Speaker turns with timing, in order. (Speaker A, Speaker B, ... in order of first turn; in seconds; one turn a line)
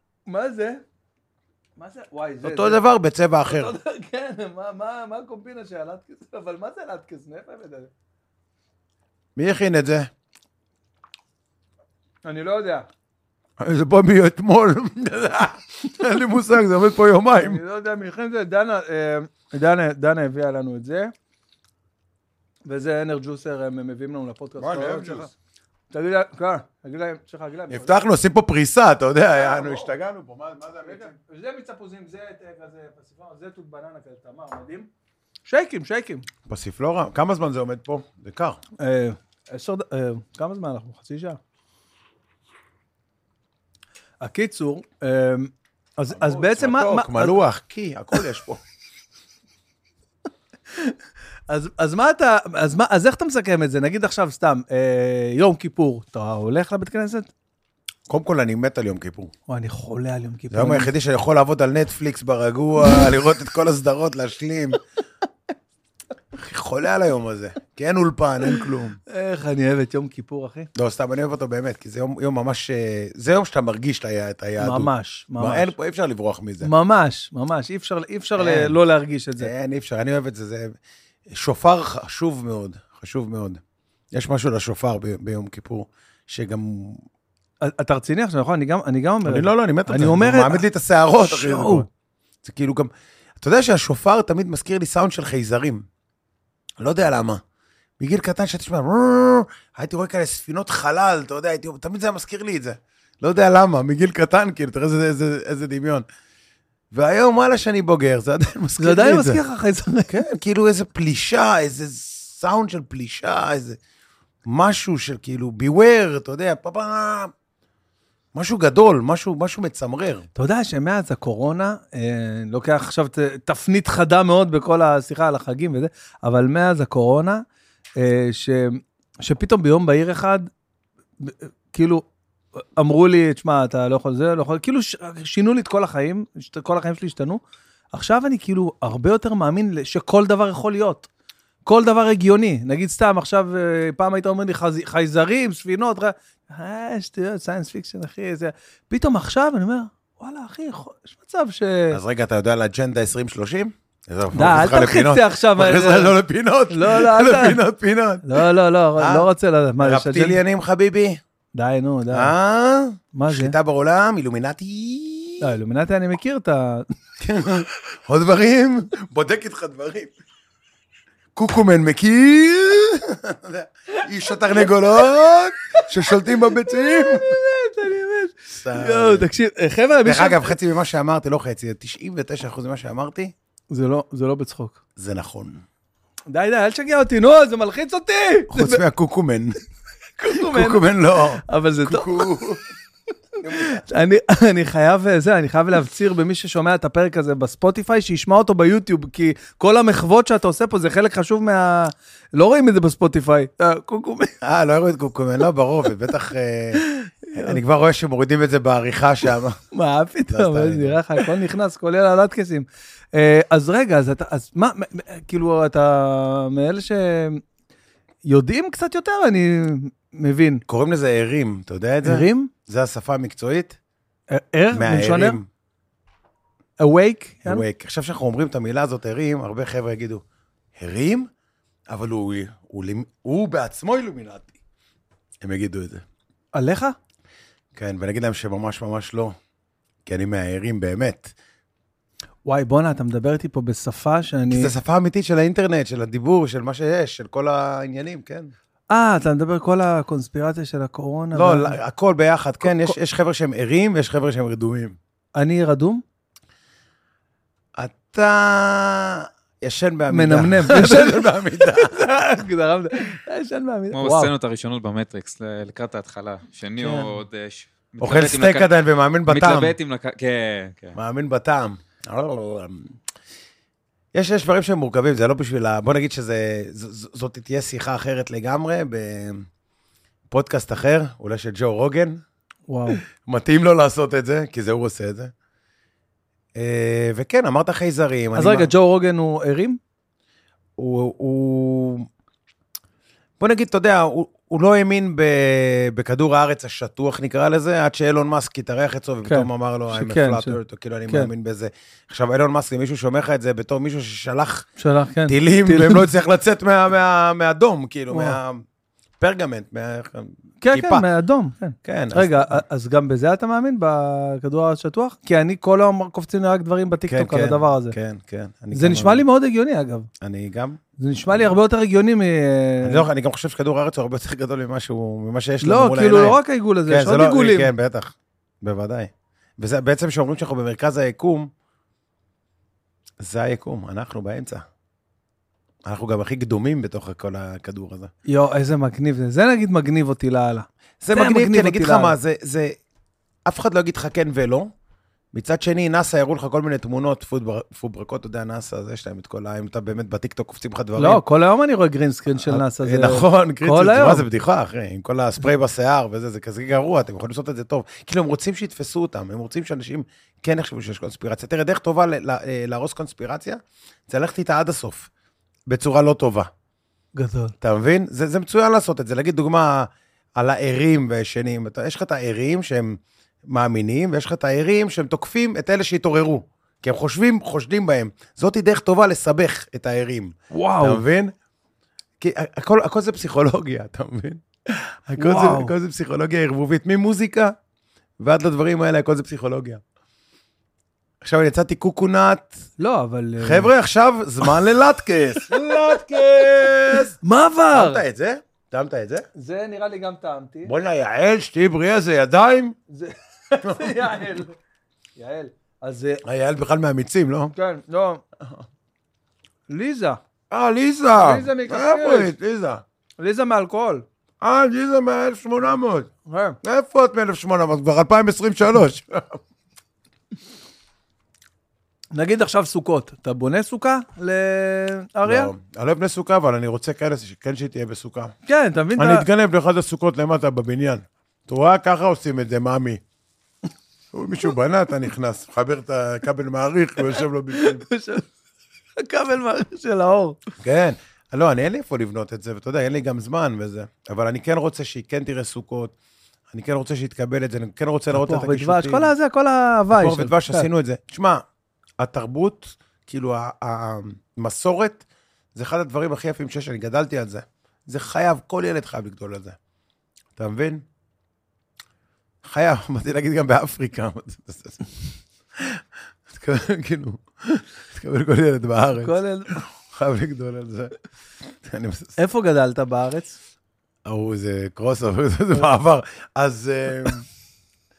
Speaker A: 0.3-0.8
Speaker A: 1.8-2.8
Speaker B: 2.4-3.8
Speaker A: 3.5-7.9
Speaker B: 9.4-10.1
Speaker A: 12.2-12.9
Speaker B: 13.6-17.6
Speaker A: 17.4-21.1
Speaker A: 22.7-25.3
Speaker B: 24.6-25.3
Speaker A: 25.9-28.0
Speaker B: 27.7-31.1
Speaker A: 29.4-29.9
Speaker A: 30.8-34.9
Speaker A: 35.5-36.3
Speaker B: 36.5-38.6
Speaker A: 38.8-41.4
Speaker A: 44.2-47.4
Speaker B: 46.1-48.6
Speaker A: 51.5-57.3
Speaker B: 58.1-59.3
Speaker A: 59.5-60.9
Speaker B: 60.5-64.8
Speaker B: 66.4-69.0
Speaker A: 69.1-70.7
Speaker B: 70.8-76.7
Speaker A: 74.6-75.7
Speaker A: 76.6-79.5
Speaker B: 78.4-78.8
Speaker B: 79.4-80.8
Speaker B: 81.3-83.6
Speaker B: 84.1-87.0
Speaker A: 87.6-90.6
Speaker B: 89.2-91.9
Speaker A: 91.2-91.9
Speaker B: 92.4-95.9
Speaker B: 96.8-97.4
Speaker B: 98.0-106.0
Speaker B: 106.9-109.4
Speaker A: 108.8-110.3
Speaker B: 110.1-113.8
Speaker B: 114.5-117.3
Speaker B: 118.3-120.3
Speaker A: 120.3-127.4
Speaker A: 128.0-130.5
Speaker A: 131.2-132.1
Speaker A: 132.6-137.4
Speaker A: 137.9-141.1
Speaker A: 141.7-152.0
Speaker B: 151.9-159.3
Speaker A: 154.3-156.2
Speaker A: 156.7-157.6
Speaker A: 158.2-160.4
Speaker B: 159.8-161.2
Speaker A: 161.6-162.3
Speaker B: 162.1-165.5
Speaker A: 163.1-163.6
Speaker A: 165.4-166.9
Speaker B: 167.2-170.1
Speaker B: 171.4-177.4
Speaker A: 176.1-180.6
Speaker B: 178.5-179.3
Speaker B: 180.1-183.3
Speaker A: 183.7-184.8
Speaker B: 185.0-185.6
Speaker A: 186.3-188.8
Speaker B: 188.5-189.5
Speaker A: 190.2-192.4
Speaker B: 190.3-192.6
Speaker B: 193.4-193.8
Speaker A: 193.5-204.3
Speaker B: 204.4-206.8
Speaker A: 206.8-207.6
Speaker B: 207.3-209.6
Speaker A: 209.7-217.4
Speaker B: 210.3-211.3
Speaker A: 218.2-220.6
Speaker B: 220.7-223.8
Speaker A: 222.0-222.5
Speaker A: 224.3-225.4
Speaker B: 224.7-225.5
Speaker A: 226.8-227.6
Speaker B: 227.4-230.2
Speaker B: 230.8-231.3
Speaker B: 231.9-234.6
Speaker B: 235.4-236.0
Speaker A: 236.6-237.0
Speaker B: 237.8-239.4
Speaker B: 240.1-241.3
Speaker A: 242.5-244.7
Speaker B: 244.5-248.5
Speaker A: 248.9-251.8
Speaker B: 251.3-255.0
Speaker A: 252.6-253.0
Speaker A: 255.4-256.0
Speaker B: 257.8-262.1
Speaker A: 260.1-264.3
Speaker C: 263.9-268.7
Speaker A: 266.8-267.1
Speaker B: 268.0-269.8
Speaker C: 269.3-271.0
Speaker B: 270.9-272.9
Speaker B: 274.1-279.5
Speaker B: 280.3-282.2
Speaker A: 282.7-283.0
Speaker B: 283.1-285.3
Speaker B: 286.6-288.7
Speaker A: 288.4-289.8
Speaker B: 290.8-292.1
Speaker B: 293.4-304.7
Speaker A: 299.3-301.3
Speaker A: 304.8-306.1
Speaker B: 305.3-308.6
Speaker A: 308.1-308.4
Speaker B: 309.2-311.1
Speaker A: 310.6-318.0
Speaker B: 311.8-312.6
Speaker B: 317.1-319.2
Speaker A: 318.7-320.1
Speaker B: 320.2-321.5
Speaker A: 321.0-323.1
Speaker B: 322.8-331.5
Speaker A: 325.6-327.7
Speaker B: 333.2-334.6
Speaker B: 335.9-338.1
Speaker A: 338.3-342.2
Speaker B: 341.0-342.8
Speaker B: 343.5-344.7
Speaker B: 345.3-351.2
Speaker A: 351.0-354.2
Speaker B: 352.4-365.1
Speaker B: 365.7-366.5
Speaker A: 367.2-367.5
Speaker B: 367.6-381.3
Speaker A: 380.5-381.0
Speaker B: 382.2-387.6
Speaker A: 385.1-385.7
Speaker B: 388.2-389.8
Speaker B: 391.2-392.7
Speaker A: 392.8-393.7
Speaker B: 393.4-397.2
Speaker A: 396.6-398.0
Speaker B: 397.7-399.3
Speaker A: 399.4-400.7
Speaker B: 400.7-402.8
Speaker A: 402.9-404.6
Speaker B: 403.6-404.3
Speaker A: 405.2-406.2
Speaker B: 406.2-407.5
Speaker A: 407.5-408.2
Speaker A: 409.7-410.2
Speaker B: 410.5-412.8
Speaker A: 411.2-412.3
Speaker A: 413.2-414.1
Speaker B: 414.4-416.1
Speaker A: 416.3-416.6
Speaker B: 416.6-419.4
Speaker A: 422.1-425.5
Speaker B: 425.3-428.3
Speaker A: 428.5-429.3
Speaker B: 429.0-433.0
Speaker B: 434.1-437.9
Speaker A: 437.1-438.3
Speaker A: 439.0-440.4
Speaker B: 440.6-445.9
Speaker B: 446.5-449.1
Speaker A: 448.1-450.7
Speaker B: 449.9-451.4
Speaker B: 452.0-459.6
Speaker B: 460.4-460.8
Speaker B: 462.4-464.9
Speaker B: 465.6-470.9
Speaker A: 469.0-469.6
Speaker B: 471.6-472.2
Speaker A: 472.2-473.4
Speaker B: 474.1-477.3